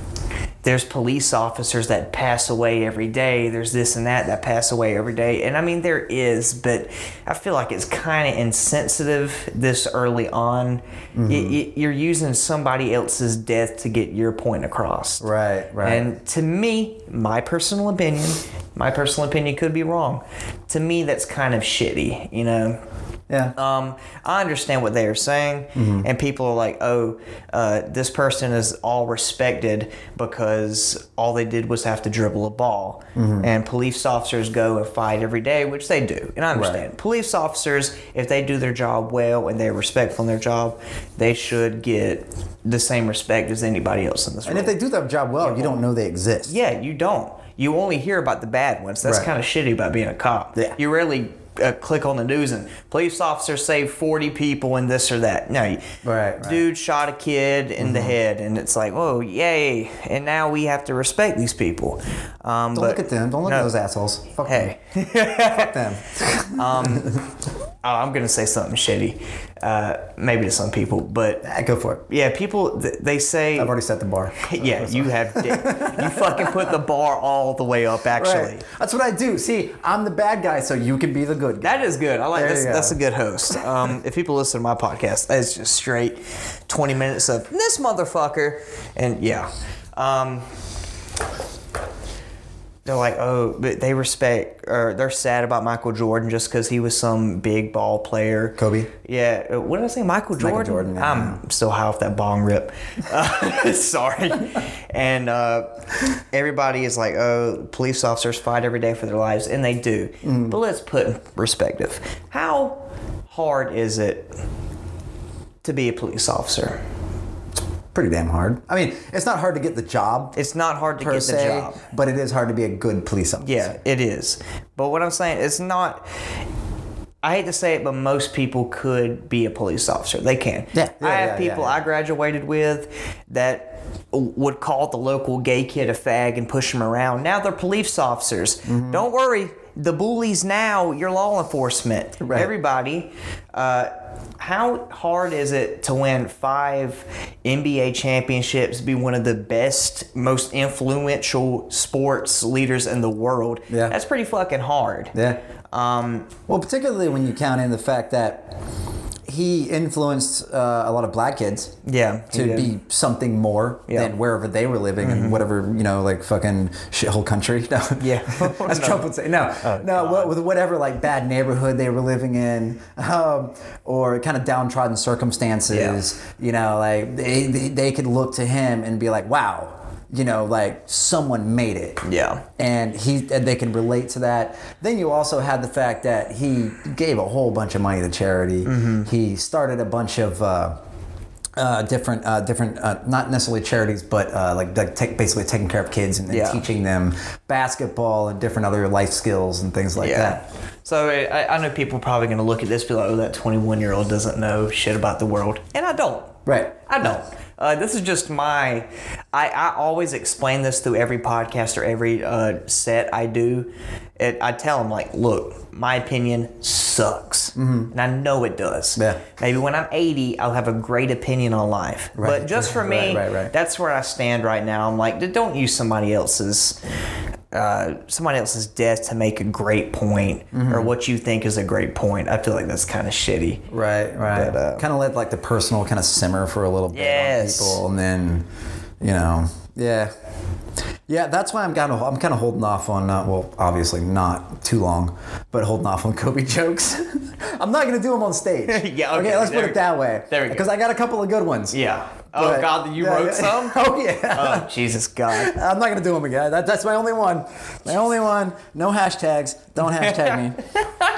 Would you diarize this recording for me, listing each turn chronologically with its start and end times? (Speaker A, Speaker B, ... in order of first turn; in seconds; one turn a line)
Speaker A: 0.6-15.3
Speaker B: 11.2-11.6
Speaker B: 15.2-16.1
Speaker A: 15.8-22.8
Speaker B: 23.3-23.6
Speaker A: 23.6-44.8
Speaker B: 25.8-26.1
Speaker B: 33.2-33.5
Speaker B: 36.5-36.8
Speaker B: 44.5-46.5
Speaker A: 45.4-45.8
Speaker A: 46.5-63.7
Speaker B: 49.0-49.3
Speaker B: 56.0-56.6
Speaker B: 57.8-58.2
Speaker B: 62.7-64.7
Speaker A: 64.5-65.7
Speaker B: 65.3-67.2
Speaker A: 66.5-67.2
Speaker A: 67.8-71.5
Speaker B: 71.4-72.0
Speaker A: 72.1-73.7
Speaker B: 73.6-76.8
Speaker A: 74.4-78.6
Speaker B: 78.2-81.7
Speaker A: 81.6-90.5
Speaker B: 82.3-83.0
Speaker A: 92.8-114.4
Speaker B: 98.6-98.9
Speaker B: 100.4-101.4
Speaker B: 110.2-110.6
Speaker A: 115.6-116.8
Speaker B: 117.9-120.4
Speaker A: 120.3-121.8
Speaker B: 121.0-123.7
Speaker A: 123.4-126.1
Speaker A: 127.2-155.2
Speaker B: 130.7-131.8
Speaker B: 138.7-139.1
Speaker B: 142.2-142.5
Speaker B: 153.7-154.0
Speaker B: 155.1-155.4
Speaker A: 155.7-156.3
Speaker B: 156.5-158.6
Speaker B: 159.3-161.8
Speaker A: 161.8-162.7
Speaker B: 162.3-182.0
Speaker A: 165.0-165.4
Speaker A: 168.0-170.3
Speaker A: 175.7-176.0
Speaker A: 182.1-182.4
Speaker B: 182.6-190.8
Speaker A: 188.6-189.1
Speaker B: 191.6-200.4
Speaker A: 196.3-196.6
Speaker A: 200.0-226.8
Speaker B: 206.5-207.2
Speaker B: 217.6-217.9
Speaker B: 219.0-219.2
Speaker B: 222.2-223.5
Speaker A: 227.5-233.7
Speaker B: 230.5-230.9
Speaker B: 233.7-238.5
Speaker A: 234.3-234.8
Speaker A: 236.9-237.8
Speaker B: 239.0-240.1
Speaker B: 241.1-251.8
Speaker A: 248.7-250.7
Speaker A: 251.7-255.5
Speaker B: 252.3-254.7
Speaker B: 255.3-260.6
Speaker A: 260.1-260.9